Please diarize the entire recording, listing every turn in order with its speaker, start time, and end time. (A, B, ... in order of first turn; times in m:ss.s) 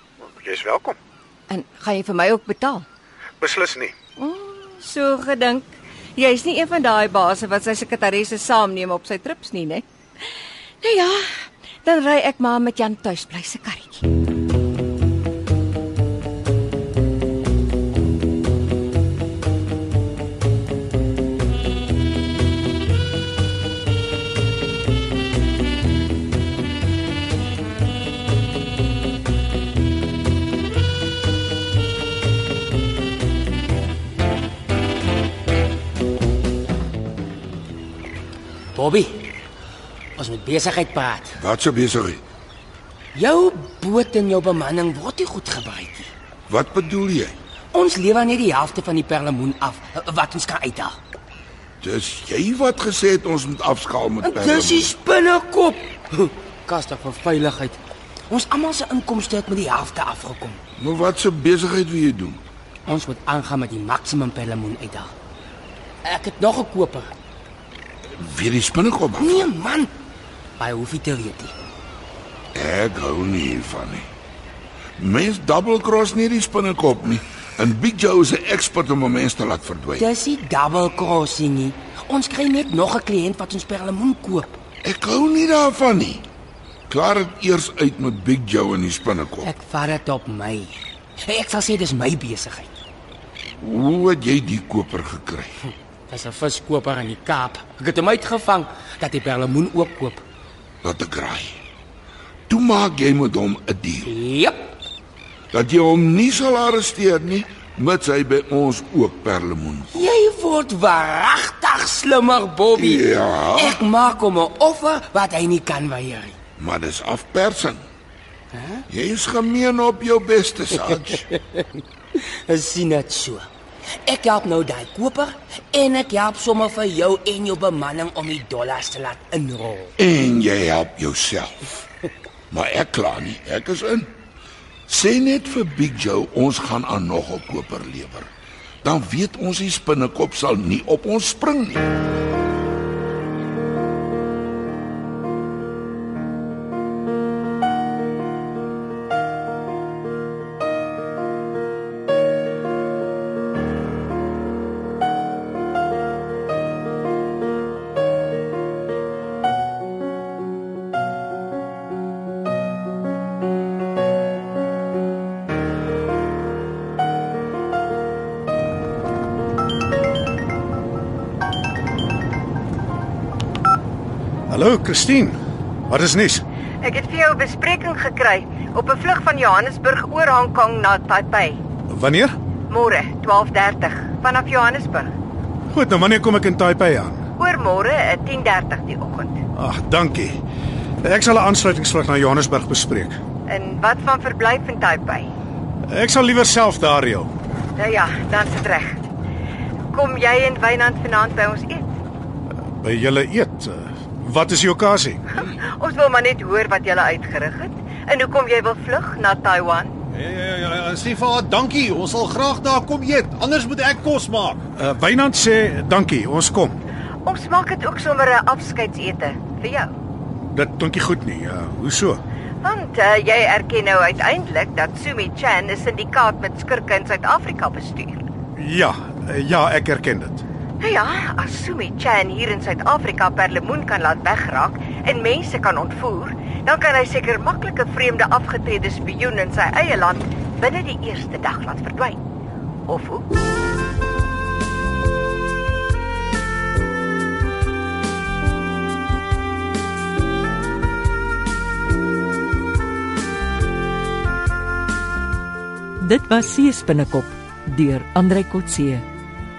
0:00.2-0:01.0 A
0:01.5-0:02.8 B
0:03.4-0:04.0 A
0:04.2-0:09.8 B
0:10.8-0:11.3 B
0:11.8-0:14.0 B
0:38.7-0:39.4 C
0:40.2-0:41.4 C
0:41.4-0:42.2 D
0:43.2-0:46.1 C
0:46.5-0:47.4 D
0:47.7-0:51.0 C
0:51.8-0:55.0 D
0:54.2-1:00.6 C
1:00.8-1:02.4 D
1:02.9-1:05.1 C
1:06.0-1:07.1 C
1:08.2-1:09.5 D
1:09.2-1:09.9 C
1:10.6-1:11.5 C
1:12.6-1:14.1 D
1:15.0-1:20.1 D
1:20.0-1:24.6 C
1:24.8-1:26.3 D
1:26.9-1:29.5 D
1:29.4-1:32.8 C
1:33.6-1:35.6 D
1:35.7-1:40.2 C
1:40.8-1:41.6 D
1:42.5-1:44.2 D
1:44.1-1:44.7 C
1:45.5-1:50.0 D
1:49.9-1:56.4 C
1:52.7-1:53.9 D
1:56.6-1:57.9 D
1:58.5-1:58.8 C
1:58.9-2:01.3 D
2:01.4-2:03.5 C
2:04.0-2:09.9 C
2:10.0-2:11.8 D
2:12.5-2:14.1 D
2:14.9-2:18.3 D
2:18.8-2:21.8 D
2:54.5-2:55.4 A
2:55.9-2:56.4 A
2:56.8-3:01.6 B
3:01.9-3:02.4 A
3:02.7-3:05.1 B
3:05.7-3:07.3 A
3:07.4-3:09.4 B
3:09.6-3:10.4 A
3:11.0-3:13.2 A
3:13.5-3:15.3 B
3:15.8-3:17.3 A
3:17.8-3:19.0 B
3:19.9-3:21.9 B
3:22.8-3:25.2 A
3:25.4-3:29.9 B
3:30.1-3:34.6 E
3:34.8-3:36.8 A
3:37.2-3:39.9 B
3:40.5-3:42.2 A
3:42.6-3:48.3 B
3:48.6-3:50.4 A
3:50.8-4:02.2 B
4:02.9-4:03.2 B
4:16.0-4:19.1 F